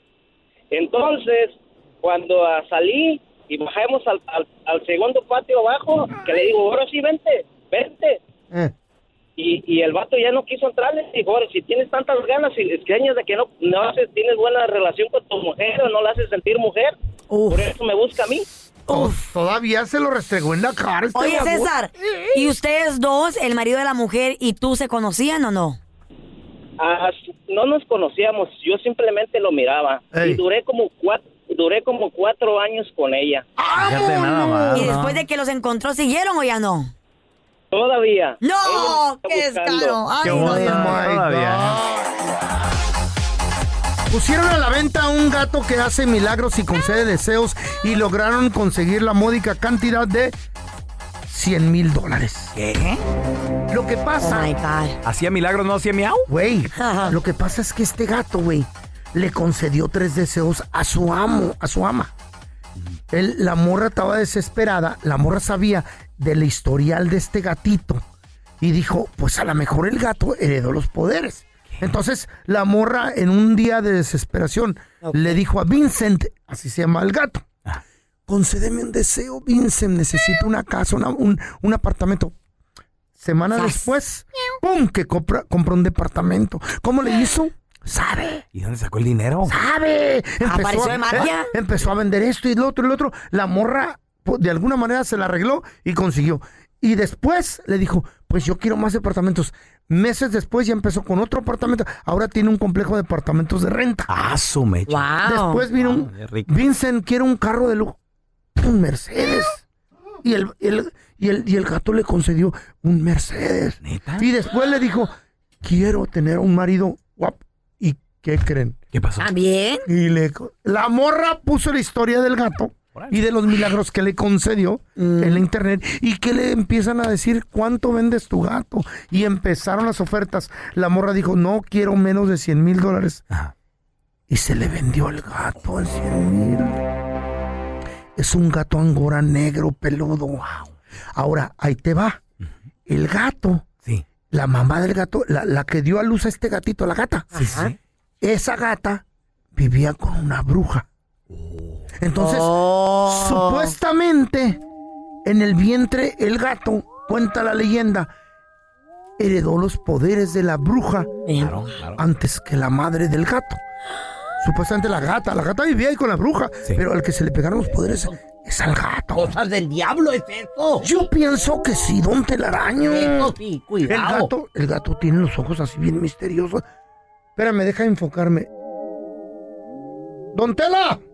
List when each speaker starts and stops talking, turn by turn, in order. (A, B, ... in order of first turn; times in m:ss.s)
0:00.7-0:08.2 A
0:09.4-0:17.0 A
0:17.3-0:17.7 B
0:17.5-0:18.4 A
0:18.9-0:19.1 B
0:18.9-0:21.7 C
0:21.1-0:25.8 B
0:26.8-0:33.4 A
0:30.1-0:30.4 C
0:33.6-0:35.0 C
0:33.8-0:35.2 D
0:34.7-0:36.9 B
0:37.7-0:40.0 A
0:38.4-0:41.0 B
0:40.2-0:41.8 D
0:40.2-0:42.2 C
0:44.1-0:50.3 C
0:51.3-0:52.6 C
0:52.6-0:53.0 D
0:53.7-0:54.5 C
0:54.2-0:55.0 B
0:55.0-0:56.3 D
0:56.3-1:02.1 C
0:56.8-0:57.2 B
1:03.1-1:08.0 C
1:08.6-1:17.4 C
1:15.0-1:15.4 B
1:18.3-1:22.3 C
1:23.2-1:28.4 C
1:23.5-1:23.9 B
1:28.5-1:29.6 D
1:29.4-1:44.1 C
1:30.4-1:31.5 B
1:44.1-1:45.1 D
1:44.9-1:45.6 B
1:45.2-1:48.0 C
1:45.7-1:46.5 D
1:48.6-1:49.6 C
1:50.2-1:58.8 C
1:53.8-1:54.3 D
1:58.9-1:59.3 D
1:59.2-1:59.8 B
1:59.9-2:13.2 C
2:05.0-2:05.4 B
2:14.3-2:16.8 C
2:18.2-2:20.6 C
2:21.1-2:22.2 C
2:22.9-2:23.6 C
2:24.3-2:27.3 C
2:27.3-2:27.7 B
2:27.3-2:27.7 D
2:28.2-2:29.0 C
2:29.6-2:30.9 C
2:31.3-2:31.8 D
2:32.0-2:34.6 C
2:32.2-2:33.7 B
2:35.2-2:38.1 C
2:39.2-2:41.1 C
2:41.3-2:41.6 B
2:41.4-2:42.0 D
2:42.0-2:43.6 C
2:44.4-2:49.4 C
2:47.9-2:48.2 E
2:49.1-2:50.9 E
2:50.8-2:56.6 C
2:52.8-2:54.3 E
2:57.4-2:58.5 C
3:00.3-3:01.0 C